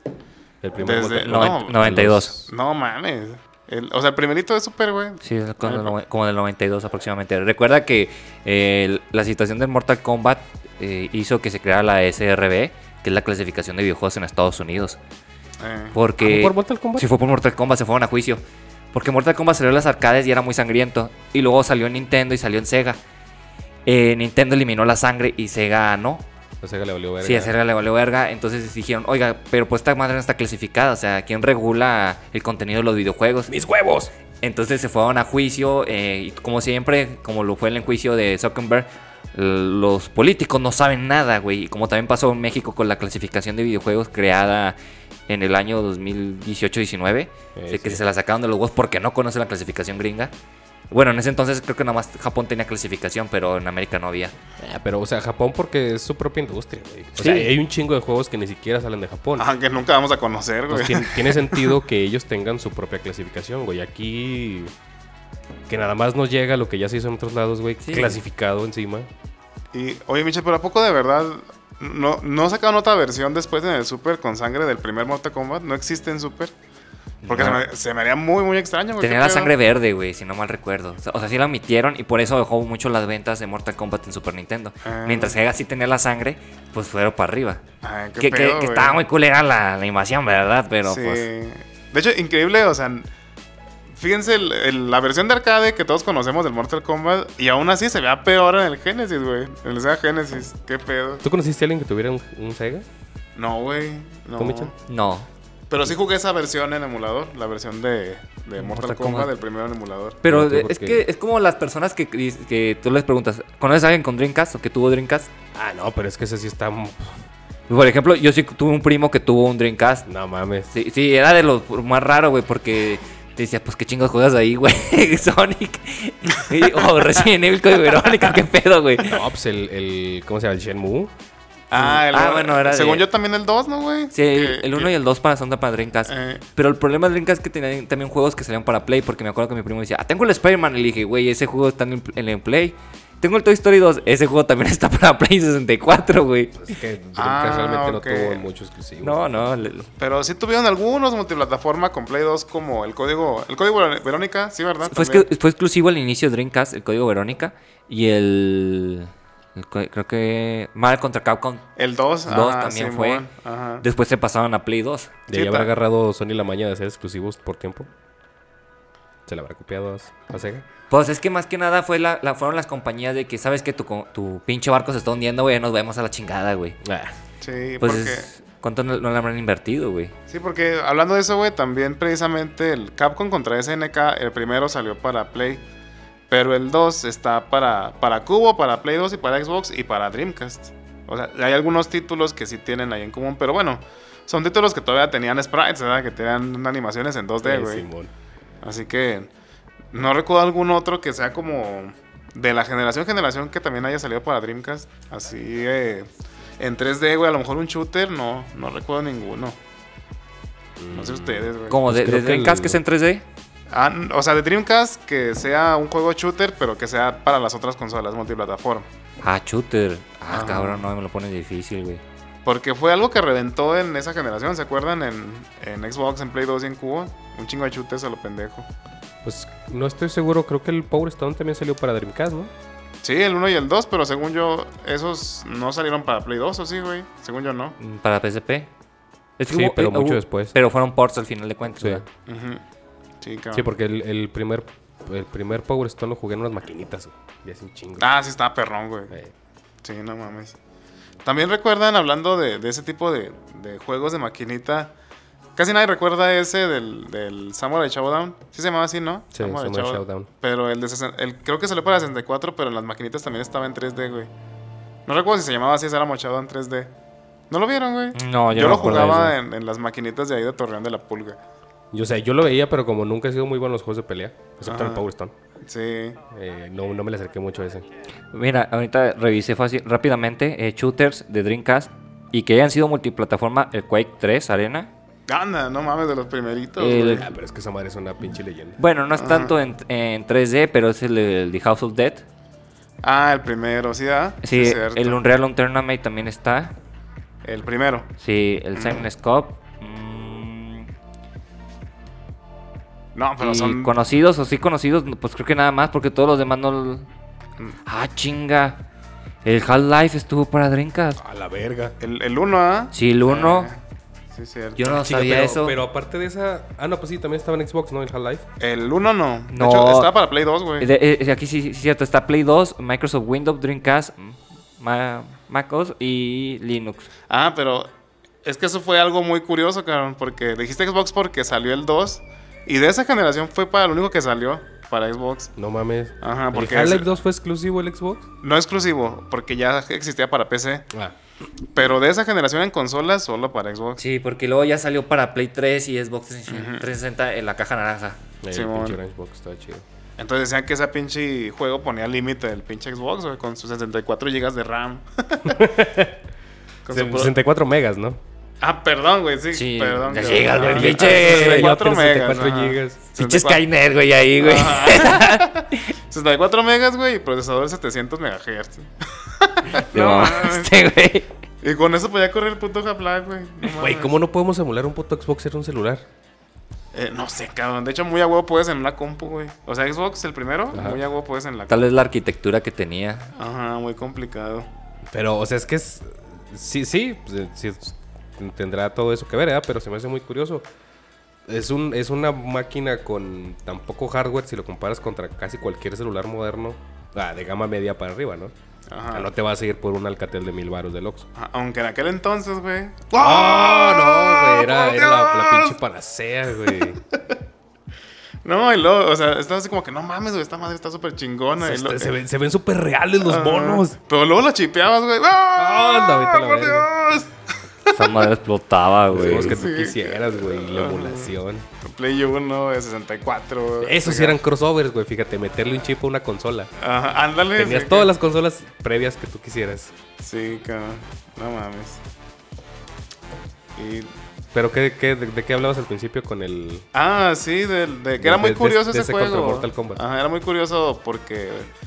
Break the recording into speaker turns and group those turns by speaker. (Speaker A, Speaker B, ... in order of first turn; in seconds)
Speaker A: 0.6-2.5, 16.2-17.1, 26.6-27.5, 33.5-34.1, 47.5-48.0, 54.6-59.5, 60.7-64.7, 65.7-69.1, 101.2-102.9, 104.4-104.7, 110.3-111.0, 115.5-117.2, 120.1-120.7, 129.0-131.1, 146.6-149.3, 165.3-167.9, 169.3-170.7, 176.8-177.2, 197.4-198.1, 210.8-212.8, 229.2-232.5, 239.5-240.6, 241.8-242.0, 243.5-248.1, 259.3-260.3, 271.9-275.3, 276.3-277.9, 287.2-288.8, 311.2-311.9, 314.9-318.4, 335.6-338.3, 348.4-349.9, 355.5-356.2, 356.9-358.2, 360.5-363.0, 373.7-376.1, 380.7-381.0, 385.1-390.6, 391.5-398.5, 399.1-401.3, 403.1-407.0, 411.6-414.0, 415.6-416.9, 419.1-421.7, 423.8-426.7, 427.6-429.9, 434.5-436.9, 438.2-440.0
Speaker B: 0.8-1.9, 2.5-6.0, 15.6-16.0, 59.4-61.7, 69.7-76.5, 77.3-79.5, 84.8-85.4, 87.8-89.0, 90.8-93.1, 93.9-101.2, 103.4-104.7, 105.7-110.2, 131.7-134.9, 136.1-136.4, 147.2-148.4, 150.0-155.3, 161.8-163.8, 165.3-165.7, 177.4-178.3, 180.3-185.6, 186.3-197.9, 198.6-199.3, 199.9-206.1, 206.6-209.6, 210.9-211.8, 213.7-218.9, 220.3-220.8, 222.4-228.7, 233.0-237.8, 242.3-242.6, 243.2-243.7, 248.0-249.1, 249.8-250.6, 251.2-254.9, 255.6-264.3, 265.1-266.9, 267.5-271.4, 274.6-275.0, 275.7-276.2, 285.3-287.3, 289.1-289.5, 293.0-295.2, 297.4-298.1, 298.7-299.0, 303.1-303.9, 312.0-313.8, 314.3-315.1, 318.6-320.9, 327.3-327.9, 328.4-335.5, 336.2-337.1, 338.4-340.9, 341.8-344.0, 346.5-346.9, 348.5-349.0, 350.2-355.7, 356.9-357.3, 358.6-363.6, 364.4-370.8, 371.6-374.1, 376.9-381.9, 383.4-384.7, 398.9-399.3, 401.4-405.8, 406.6-407.4, 408.4-412.1, 413.2-417.3, 417.9-418.3, 419.2-424.4, 426.8-428.1, 430.2-432.0, 433.8-434.1, 436.9-441.7
Speaker C: 1.2-2.3, 5.2-15.0, 15.9-18.4, 18.9-23.0, 23.9-26.2, 27.2-33.5, 34.4-44.8, 45.3-50.3, 50.9-54.3, 57.2-57.5, 67.8-68.2, 77.2-77.6, 79.0-87.6, 88.2-91.3, 104.9-105.3, 108.6-109.3, 110.2-115.3, 117.7-120.1, 120.7-129.2, 131.7-133.1, 134.1-146.6, 149.0-149.9, 154.9-161.6, 162.3-163.2, 163.8-165.2, 170.9-176.8, 177.8-180.1, 211.7-213.2, 219.2-222.0, 237.8-238.7, 239.4-242.0, 268.1-269.4, 278.3-284.9, 286.8-287.3, 288.8-292.2, 294.4-296.7, 298.2-300.9, 303.4-307.1, 307.9-308.8, 309.4-311.2, 312.9-313.7, 314.8-315.8, 319.5-320.1, 320.8-327.1, 344.0-348.2, 359.5-361.7, 363.1-365.9, 369.7-371.3, 381.7-383.3, 417.9-419.6